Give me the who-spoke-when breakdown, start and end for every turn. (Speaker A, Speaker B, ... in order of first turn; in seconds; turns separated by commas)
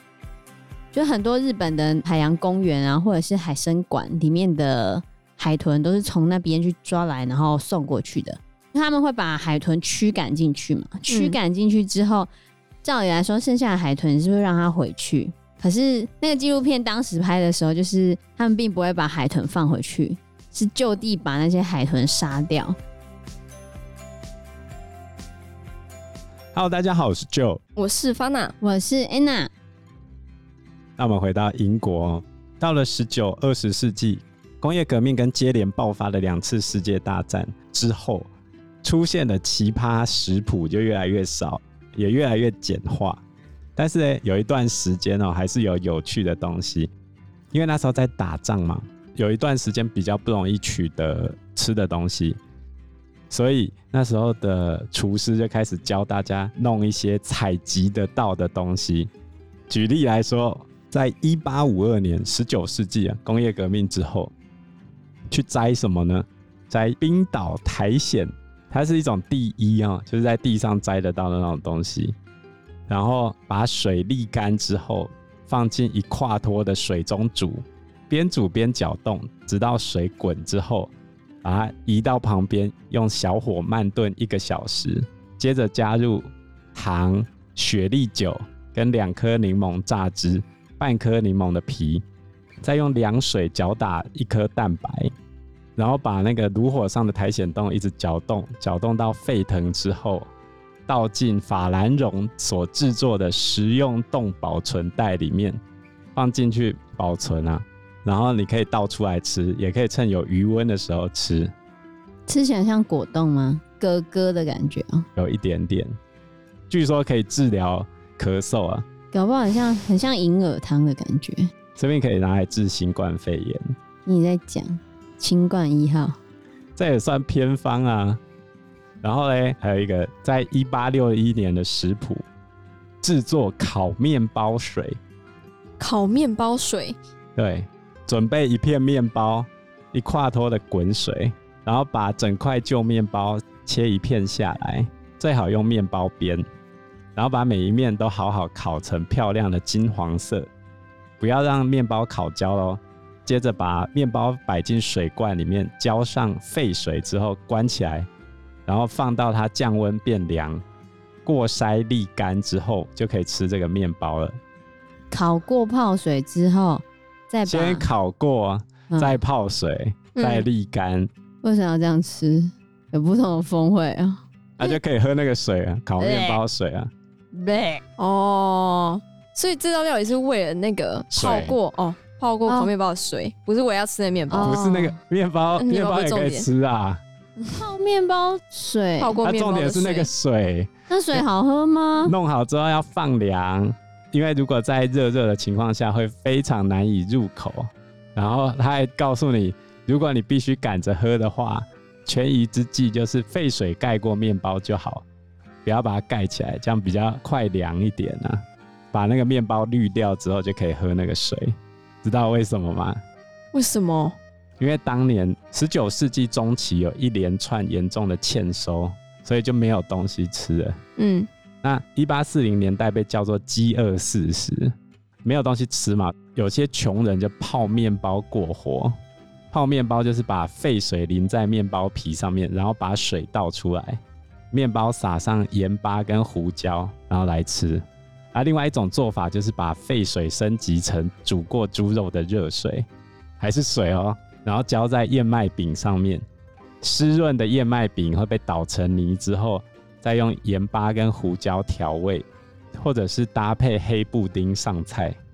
Speaker A: 0.9-12.3, Speaker B: 11.1-11.4, Speaker A: 12.8-22.8, Speaker C: 26.5-27.6, Speaker B: 27.8-28.5, Speaker A: 28.6-29.5, Speaker C: 31.0-38.3, Speaker C: 38.8-43.2, Speaker C: 43.8-46.9, Speaker C: 47.5-52.4, Speaker C: 53.3-59.1, Speaker C: 59.7-64.3, Speaker C: 65.3-72.2, Speaker C: 72.9-80.9, Speaker C: 81.4-92.0, Speaker C: 92.6-95.1, Speaker C: 95.8-100.3, Speaker C: 100.9-105.6, Speaker C: 106.1-111.5, Speaker A: 112.3-115.0, Speaker C: 115.2-115.9, Speaker C: 116.7-118.8, Speaker A: 119.1-121.5, Speaker C: 121.8-123.7, Speaker A: 124.0-126.2, Speaker C: 126.8-128.2, Speaker C: 129.0-132.2, Speaker C: 133.0-135.0, Speaker B: 135.8-137.0, Speaker C: 137.3-146.4, Speaker C: 147.1-150.5, Speaker C: 151.2-158.1, Speaker C: 158.7-160.6, Speaker C: 161.2-164.4, Speaker A: 165.1-167.9, Speaker C: 167.4-171.1, Speaker A: 168.9-169.2, Speaker B: 170.2-170.5, Speaker A: 171.4-174.8, Speaker C: 174.6-176.9, Speaker A: 176.0-176.4, Speaker A: 177.3-177.8, Speaker B: 178.0-184.9, Speaker C: 181.1-181.6, Speaker A: 182.4-182.7, Speaker A: 184.3-184.6, Speaker C: 184.4-187.0, Speaker B: 185.6-186.5, Speaker A: 187.4-189.2, Speaker B: 189.0-190.1, Speaker C: 189.2-191.2, Speaker A: 190.9-192.1, Speaker C: 192.0-205.0, Speaker C: 205.6-208.4, Speaker C: 208.9-213.0, Speaker B: 213.5-214.2, Speaker C: 214.6-220.8, Speaker B: 221.0-221.3, Speaker C: 221.6-229.0, Speaker C: 229.5-234.0, Speaker C: 234.5-242.9, Speaker C: 243.4-246.2, Speaker C: 246.8-255.2